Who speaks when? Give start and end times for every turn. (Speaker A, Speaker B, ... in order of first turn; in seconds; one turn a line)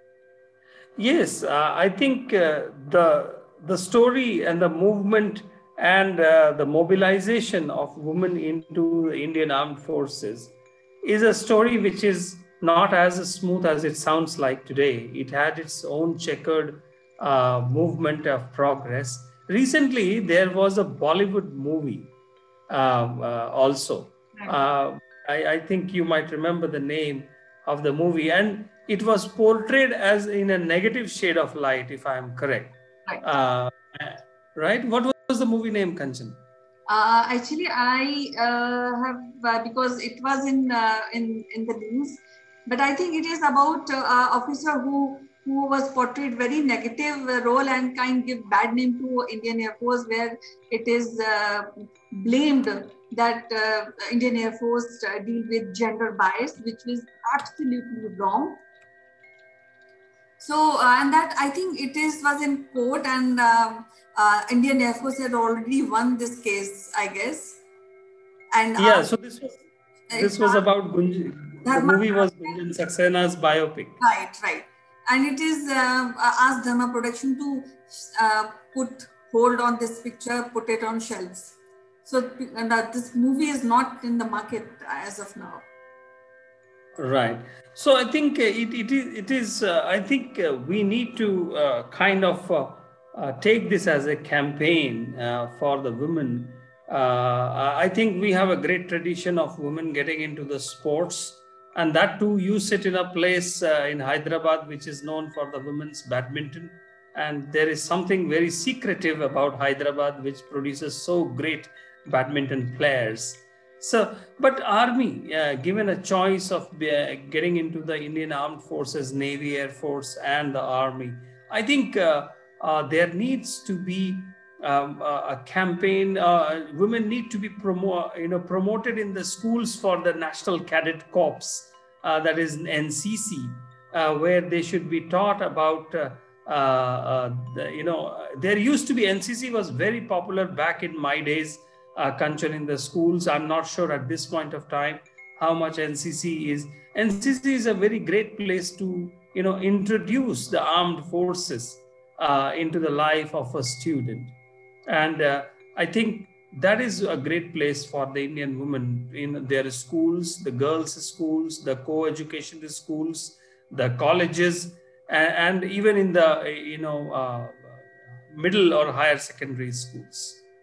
Speaker A: 1.0-22.1
Speaker A: 22.7-32.7
Speaker A: 33.2-36.4
Speaker B: 36.9-58.6
Speaker B: 60.4-67.6
Speaker B: 68.5-69.0
Speaker A: 68.8-69.6
Speaker B: 70.1-70.7
Speaker A: 70.1-74.0
Speaker B: 71.6-72.6
Speaker B: 74.0-85.6
Speaker A: 87.0-154.3
Speaker A: 154.9-170.4